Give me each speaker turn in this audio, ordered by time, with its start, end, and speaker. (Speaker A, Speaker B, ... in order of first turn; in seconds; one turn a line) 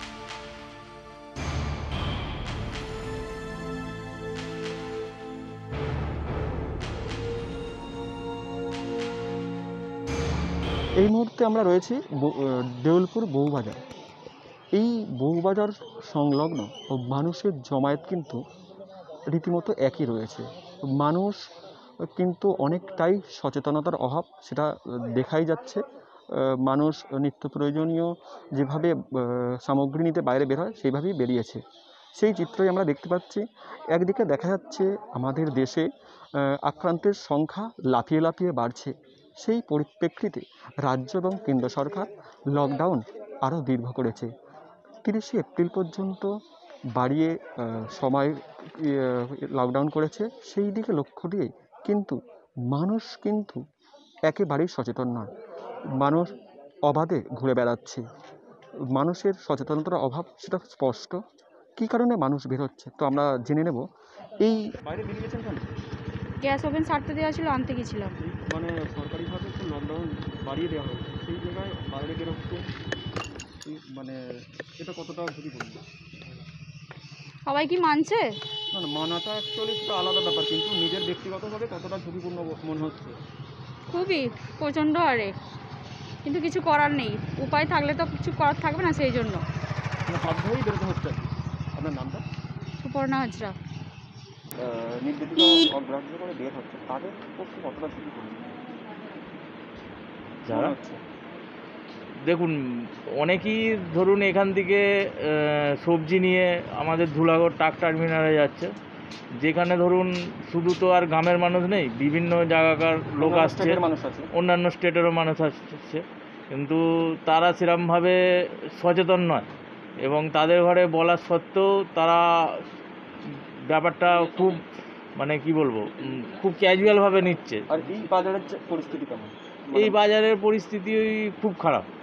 Speaker A: 11.0-13.8
Speaker A: 14.7-18.4
Speaker A: 19.3-21.4
Speaker A: 22.0-25.8
Speaker A: 26.3-31.6
Speaker A: 32.1-44.3
Speaker A: 45.0-46.3
Speaker A: 46.9-52.2
Speaker A: 52.7-53.6
Speaker A: 54.3-55.3
Speaker A: 56.0-56.3
Speaker A: 56.9-58.0
Speaker A: 58.9-61.2
Speaker A: 61.8-63.8
Speaker A: 64.4-65.7
Speaker B: 66.4-68.1
Speaker A: 68.2-72.7
Speaker A: 73.6-74.2
Speaker A: 74.8-75.8
Speaker B: 77.5-78.2
Speaker A: 78.7-83.2
Speaker B: 83.9-85.3
Speaker B: 86.2-89.4
Speaker A: 90.1-92.2
Speaker B: 92.8-93.5
Speaker A: 94.6-98.5
Speaker C: 100.5-100.7
Speaker A: 100.5-101.0
Speaker C: 102.2-108.7
Speaker C: 109.4-113.8
Speaker A: 113.2-114.3
Speaker C: 114.3-118.2
Speaker C: 118.7-119.5
Speaker C: 120.0-122.6
Speaker C: 123.7-124.6
Speaker C: 125.2-127.7
Speaker A: 127.7-130.0
Speaker C: 129.8-131.8